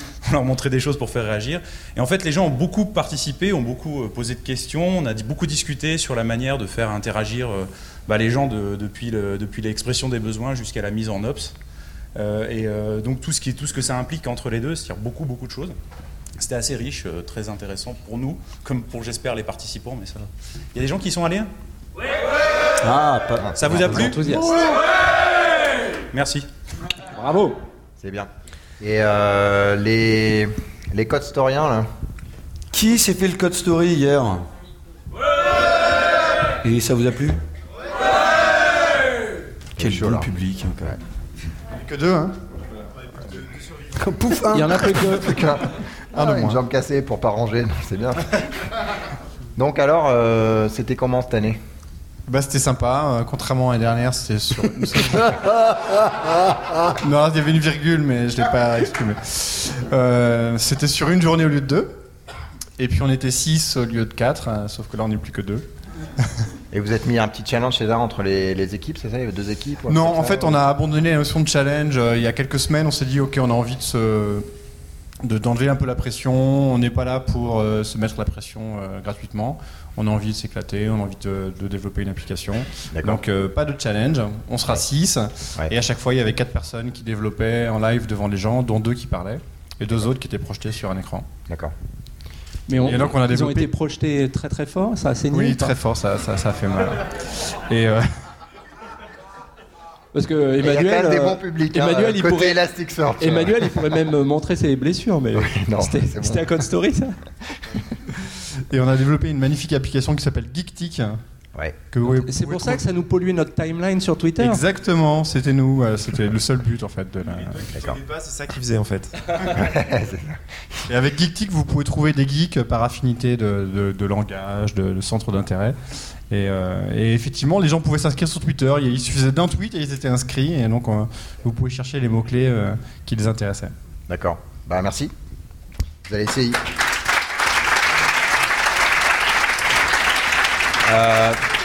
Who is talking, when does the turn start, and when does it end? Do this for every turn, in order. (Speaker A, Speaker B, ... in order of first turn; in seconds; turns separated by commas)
Speaker A: 0.2-11.5, Speaker A: 12.2-15.8, Speaker A: 16.4-21.5, Speaker B: 22.8-24.1, Speaker C: 23.4-24.0, Speaker A: 23.6-24.5, Speaker D: 23.9-24.6, Speaker A: 26.1-26.5, Speaker D: 27.1-27.6, Speaker C: 28.0-31.9, Speaker B: 32.7-34.5, Speaker B: 36.6-37.4, Speaker C: 39.8-40.3, Speaker B: 39.8-40.9, Speaker E: 41.7-42.4, Speaker B: 43.9-45.1, Speaker D: 44.5-45.3, Speaker C: 45.2-48.5, Speaker E: 46.1-46.6, Speaker C: 49.5-51.6, Speaker E: 52.3-56.1, Speaker E: 56.8-62.0, Speaker E: 62.8-65.7, Speaker C: 66.7-70.6, Speaker E: 69.9-74.5, Speaker E: 75.2-91.3, Speaker C: 82.9-83.2, Speaker D: 92.7-95.7, Speaker E: 92.7-93.7, Speaker E: 95.3-98.1, Speaker D: 100.1-102.6, Speaker C: 100.6-103.8, Speaker D: 103.2-107.2, Speaker C: 105.3-106.5, Speaker E: 108.7-111.2, Speaker E: 111.9-112.8, Speaker D: 112.1-114.6, Speaker E: 114.4-117.8, Speaker A: 117.2-119.6, Speaker E: 118.6-119.1, Speaker C: 119.5-120.4, Speaker E: 120.9-125.8, Speaker E: 126.3-133.7, Speaker C: 134.1-135.1, Speaker C: 136.1-136.6, Speaker C: 140.8-141.4